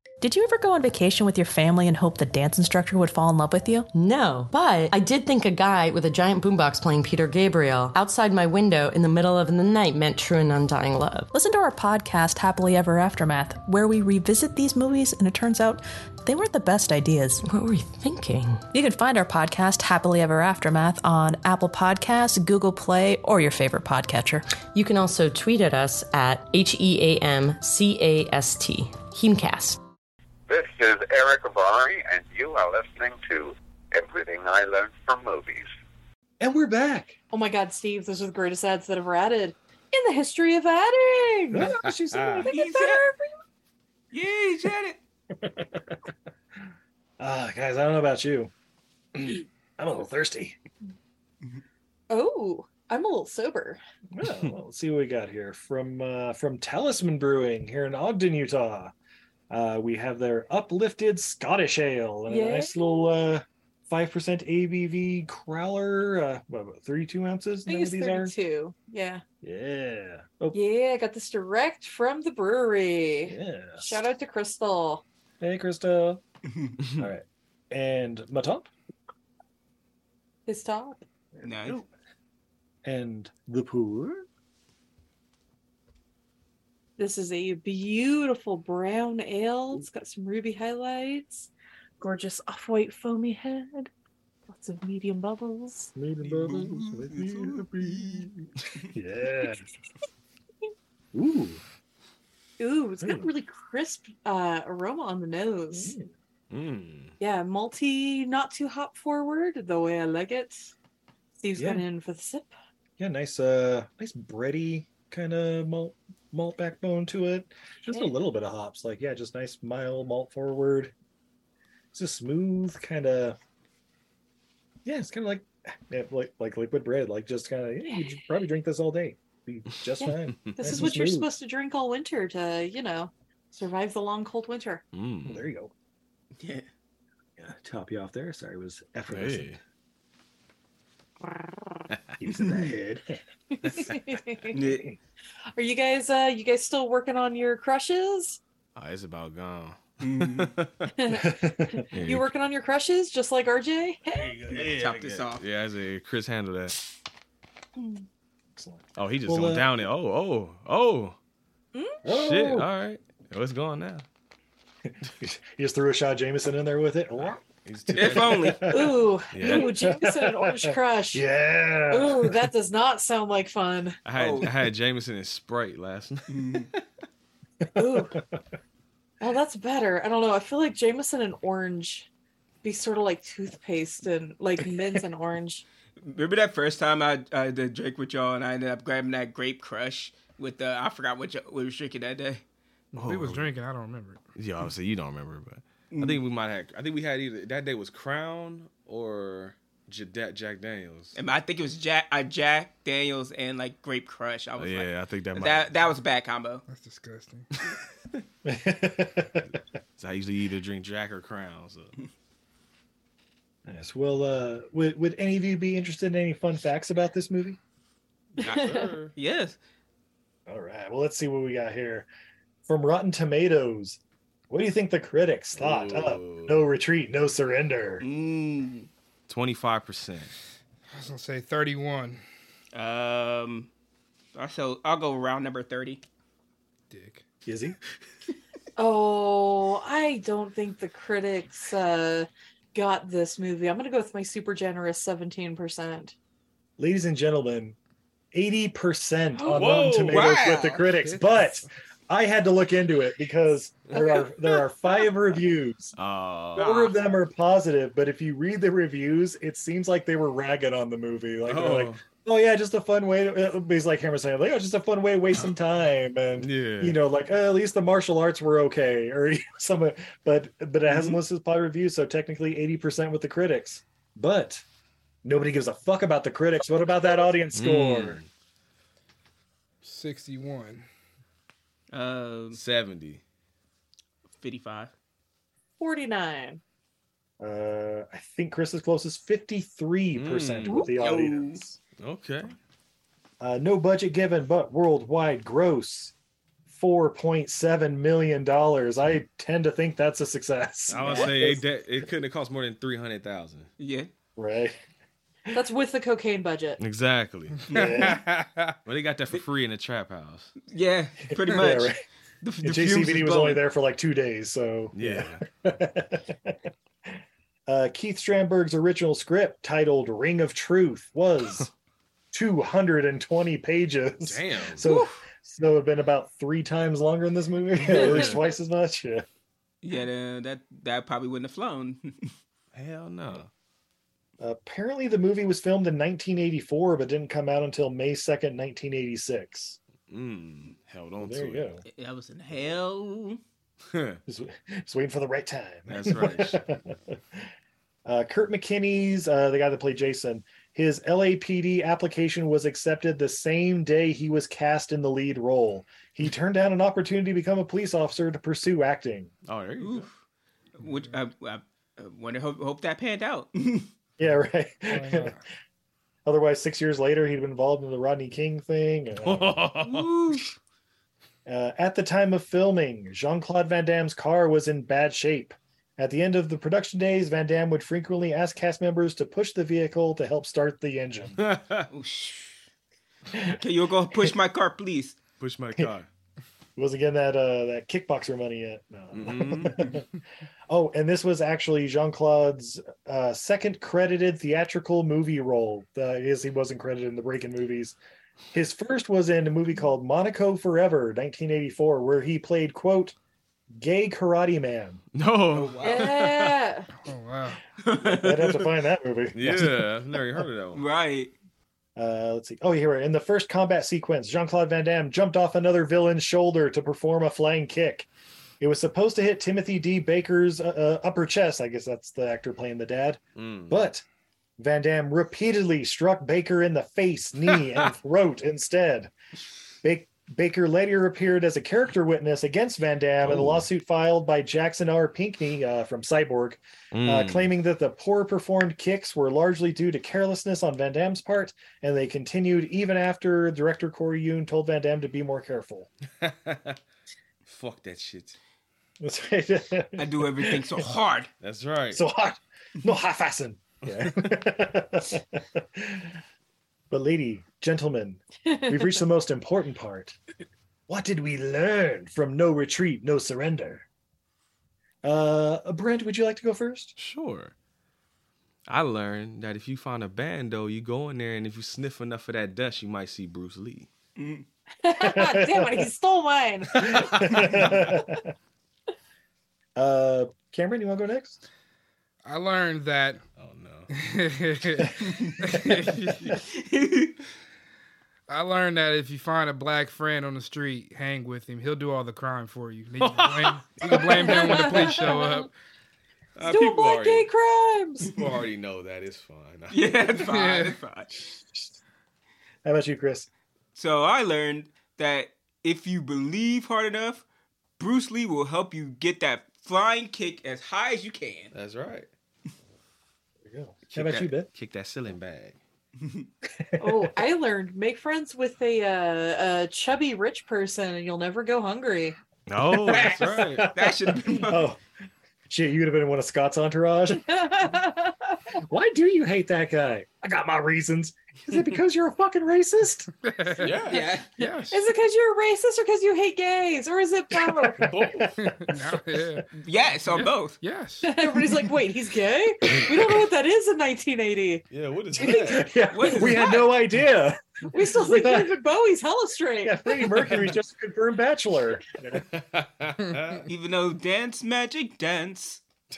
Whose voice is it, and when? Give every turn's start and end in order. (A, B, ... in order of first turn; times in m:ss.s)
0:00.2-0:03.9 A
0:03.9-0:11.3 B
0:11.3-0:17.4 A
0:17.4-0:18.6 B
0:18.7-0:24.5 A
0:24.7-0:29.8 B
0:30.5-0:35.7 C
0:36.4-0:37.2 D
0:37.3-0:41.8 E
0:41.5-0:42.5 D
0:42.2-0:42.4 F
0:42.4-0:43.3 E
0:42.5-0:43.0 G
0:44.1-0:45.0 G
0:45.3-0:46.0 D
0:47.2-0:48.5 D
0:49.2-0:50.6 D
0:52.1-0:53.8 E
0:54.1-0:58.9 D
0:59.5-1:08.3 D
1:02.3-1:03.0 E
1:07.7-1:09.2 E
1:09.4-1:10.6 D
1:10.5-1:15.0 E
1:13.3-1:14.0 D
1:15.4-1:16.2 D
1:16.5-1:16.8 G
1:17.0-1:18.7 D
1:20.5-1:21.0 E
1:21.4-1:21.8 D
1:21.4-1:21.8 G
1:22.8-1:24.3 D
1:27.0-1:33.9 E
1:34.5-1:35.9 E
1:36.0-1:38.2 D
1:36.2-1:38.3 G
1:38.9-1:39.6 D
1:41.1-1:41.6 D
1:42.6-1:45.9 E
1:43.0-1:43.3 D
1:45.7-1:46.1 D
1:46.5-1:47.2 F
1:47.2-1:50.7 E
1:51.4-1:52.5 E
1:51.6-1:51.8 D
1:53.0-2:00.9 D
2:01.9-2:03.4 D
2:04.8-2:11.3 D
2:10.0-2:14.8 E
2:10.3-2:10.8 F
2:14.9-2:15.5 F
2:15.2-2:15.7 D
2:16.4-2:16.7 G
2:17.4-2:19.5 D
2:19.1-2:19.6 F
2:21.3-2:21.9 E
2:22.2-2:23.2 D
2:22.3-2:22.7 G
2:23.5-2:24.6 E
2:24.5-2:24.9 G
2:24.6-2:25.0 D
2:25.6-2:28.4 E
2:28.8-2:30.9 F
2:30.0-2:30.5 G
2:31.0-2:34.5 E
2:31.1-2:31.8 D
2:31.9-2:32.3 F
2:34.4-2:36.8 F
2:34.5-2:35.4 G
2:38.6-2:39.7 D
2:39.0-2:41.2 F
2:41.7-2:42.1 E
2:42.0-2:42.7 D
2:42.1-2:44.0 F
2:44.9-2:47.4 D
2:47.4-2:48.7 F
2:47.9-2:48.7 G
2:48.0-2:52.5 D
2:48.7-2:51.2 E
2:49.3-2:49.7 F
2:51.9-2:54.0 E
2:54.0-2:56.8 F
2:54.2-2:54.5 G
2:56.3-2:56.7 G
2:57.8-2:58.2 E
2:57.8-2:58.4 D
2:59.2-3:02.1 E
3:02.6-3:05.6 E
3:06.0-3:12.4 G
3:13.0-3:13.5 F
3:13.0-3:14.2 H
3:14.4-3:21.2 F
3:15.9-3:16.2 G
3:21.2-3:26.6 G
3:24.6-3:25.7 F
3:26.7-3:27.5 H
3:28.4-3:29.5 D
3:30.0-3:32.0 F
3:33.7-3:37.6 D
3:38.4-3:39.1 F
3:38.4-3:38.9 E
3:38.4-3:39.6 G
3:40.5-3:42.1 D
3:42.7-3:48.0 D
3:45.6-3:46.6 F
3:48.0-3:48.9 G
3:49.3-3:50.3 F
3:50.9-3:52.2 H
3:52.7-3:53.7 G
3:54.4-3:56.0 G
3:56.9-3:57.2 H
3:57.5-3:57.8 D
3:58.8-4:06.1 E
4:06.8-4:07.8 D
4:08.3-4:16.0 D
4:09.4-4:10.8 G
4:09.5-4:10.6 F
4:11.0-4:11.5 H
4:14.0-4:14.3 E
4:16.0-4:16.9 F
4:16.6-4:34.6 D
4:21.5-4:22.0 F
4:26.4-4:27.0 F
4:30.9-4:31.2 F
4:35.2-4:38.2 D
4:37.5-4:38.3 F
4:39.8-4:40.8 H
4:41.9-4:42.6 G
4:42.5-4:43.2 F
4:44.4-4:44.9 G
4:45.8-4:46.6 E
4:47.4-4:51.8 D
4:50.2-4:50.9 F
4:50.8-4:51.6 G
4:52.0-4:52.6 F
4:53.4-4:56.1 D
4:56.7-5:01.6 D
5:00.9-5:03.7 F
5:03.8-5:04.1 G
5:04.4-5:04.8 D
5:05.5-5:06.8 E
5:06.8-5:07.6 F
5:07.7-5:08.2 G
5:07.7-5:08.2 D
5:07.8-5:08.8 H
5:08.9-5:10.5 F
5:10.7-5:13.6 G
5:11.4-5:12.0 D
5:12.6-5:17.1 D
5:15.0-5:15.4 F
5:17.7-5:21.7 D
5:22.3-5:29.3 D
5:24.2-5:24.9 F
5:27.8-5:28.4 F
5:29.8-5:32.3 G
5:32.7-5:33.5 F
5:34.4-5:39.8 D
5:40.1-5:41.8 F
5:41.2-5:41.8 D
5:41.8-5:43.4 G
5:43.9-5:44.2 F
5:44.3-5:47.5 D
5:45.9-5:46.6 F
5:48.1-5:59.3 D
5:59.5-6:00.1 F
5:59.8-6:00.1 G
6:00.8-6:03.9 G
6:00.8-6:01.1 H
6:04.2-6:05.4 D
6:04.9-6:05.4 H
6:06.2-6:09.6 D
6:09.2-6:10.4 F
6:09.9-6:10.4 G
6:11.5-6:21.4 D
6:21.4-6:21.9 F
6:21.9-6:22.6 G
6:23.5-6:25.2 G
6:25.4-6:26.1 F
6:26.8-6:30.0 D
6:29.1-6:29.9 F
6:30.7-6:38.0 D
6:38.5-6:43.2 D
6:43.7-6:45.0 D
6:45.1-6:46.6 F
6:45.5-6:46.2 G
6:45.8-6:46.9 E
6:47.0-6:47.6 H
6:48.0-6:48.4 F
6:48.1-6:49.8 D
6:49.3-6:50.8 F
6:50.8-6:51.3 G
6:52.0-6:58.1 D
6:58.6-7:04.0 D
7:03.4-7:03.8 F
7:04.6-7:09.1 D
7:09.8-7:25.9 D
7:13.2-7:13.6 F
7:16.9-7:17.5 F
7:26.2-7:26.8 F
7:27.5-7:28.4 F
7:29.0-7:30.7 D
7:30.0-7:31.3 G
7:31.4-7:32.0 F
7:31.9-7:36.2 D
7:36.9-7:40.2 D
7:38.5-7:38.8 E
7:40.9-7:43.9 D
7:45.0-7:46.9 D
7:47.0-7:47.5 F
7:48.7-7:53.9 F
7:54.2-7:54.4 G
7:54.8-7:58.0 E
7:55.0-7:55.9 D
7:56.8-7:58.3 D
7:59.8-8:01.4 D
8:02.2-8:03.2 H
8:03.4-8:03.9 F
8:03.9-8:06.3 H
8:05.0-8:05.4 G
8:06.0-8:07.2 G
8:08.3-8:15.5 H
8:13.0-8:15.0 F
8:14.2-8:15.5 E
8:16.4-8:17.3 F
8:16.4-8:18.1 E
8:18.1-8:20.1 F
8:19.7-8:21.1 G
8:20.2-8:20.8 H
8:22.6-8:23.3 D
8:23.8-8:27.2 G
8:27.8-8:31.5 G
8:31.5-8:32.1 F
8:33.4-8:34.5 D
8:33.9-8:35.6 F
8:36.0-8:36.3 G
8:36.6-8:37.1 D
8:36.8-8:42.2 E
8:42.5-8:43.7 F
8:42.8-8:44.8 D
8:42.9-8:44.7 G
8:45.5-8:47.2 D
8:47.2-8:48.4 E
8:48.6-8:53.1 D
8:53.2-8:53.9 H
8:53.6-8:54.1 F
8:53.9-8:54.3 G
8:53.9-8:57.9 E
8:54.4-8:54.9 H
8:57.8-8:58.6 F
8:57.8-8:59.4 D
8:58.4-8:59.5 H
8:59.5-9:00.6 G
9:00.1-9:01.1 H
9:01.0-9:04.7 E
9:04.7-9:06.3 F
9:05.2-9:07.4 D
9:05.9-9:06.8 G
9:07.7-9:10.1 E
9:07.9-9:08.6 D
9:09.6-9:12.2 D
9:12.2-9:13.5 F
9:13.5-9:15.6 G